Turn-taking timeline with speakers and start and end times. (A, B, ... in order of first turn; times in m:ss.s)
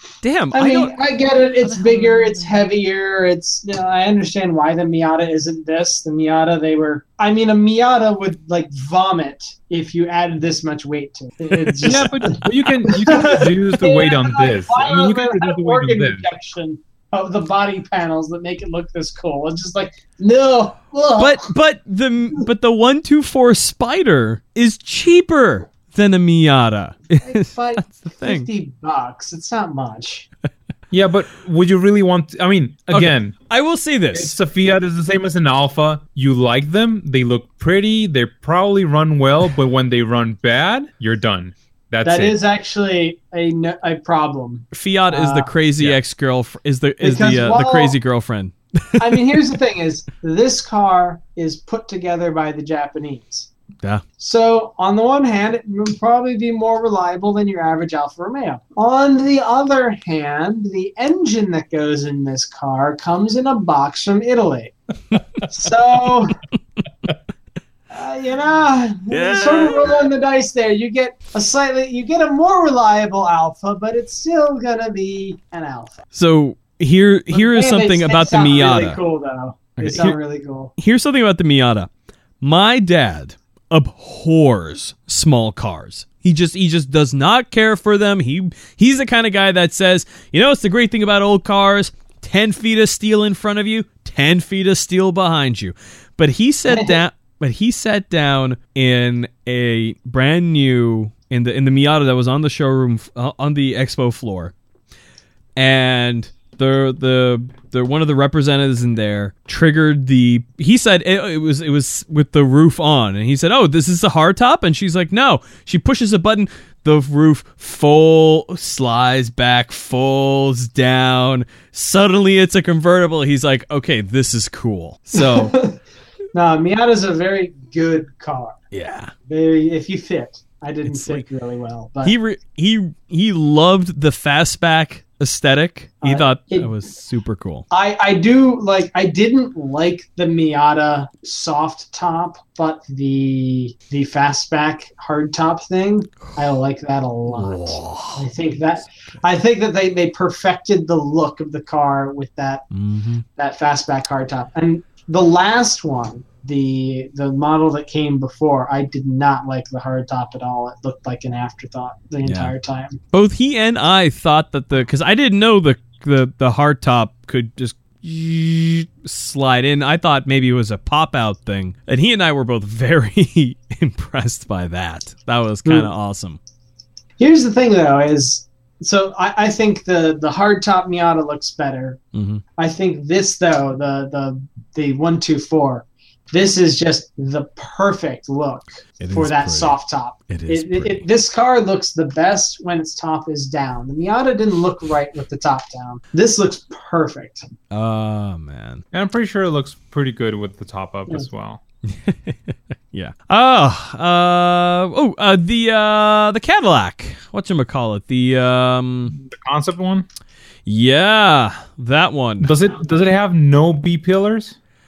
0:00.2-0:00.9 A
0:00.5-0:21.5 B
0:01.6-0:02.6 A
0:11.5-0:12.4 A
0:11.8-0:16.2 C
0:21.2-0:28.5 A
0:27.2-0:30.3 B
0:30.9-0:33.4 C
0:32.9-0:34.3 A
0:34.1-0:42.4 C
0:42.0-0:45.5 B
0:44.7-0:49.2 A
0:47.0-0:48.0 B
0:49.0-0:53.5 B
0:54.2-1:04.7 B
1:05.4-1:06.3 B
1:07.9-1:16.0 B
1:09.1-1:10.0 A
1:16.1-1:19.0 A
1:17.3-1:20.7 B
1:19.8-1:20.2 A
1:20.8-1:21.9 A
1:22.4-1:44.5 A
1:36.7-1:37.0 B
1:45.6-2:05.5 A
2:05.1-2:05.8 B
2:06.3-2:08.6 B
2:08.7-2:09.1 A
2:09.3-2:12.2 B
2:10.9-2:11.2 A
2:12.0-2:17.6 A
2:16.0-2:16.8 B
2:17.7-2:32.6 B
2:27.3-2:28.3 A
2:32.7-2:33.2 A
2:33.4-2:43.0 B
2:42.2-2:42.5 A
2:43.1-2:56.4 A
2:57.2-3:02.0 B
3:02.1-3:02.4 A
3:02.6-3:17.4 B
3:09.0-3:11.1 A
3:17.7-3:18.8 A
3:18.9-3:21.6 C
3:21.9-3:29.2 A
3:29.2-3:30.0 C
3:30.6-3:32.5 A
3:32.4-3:34.6 C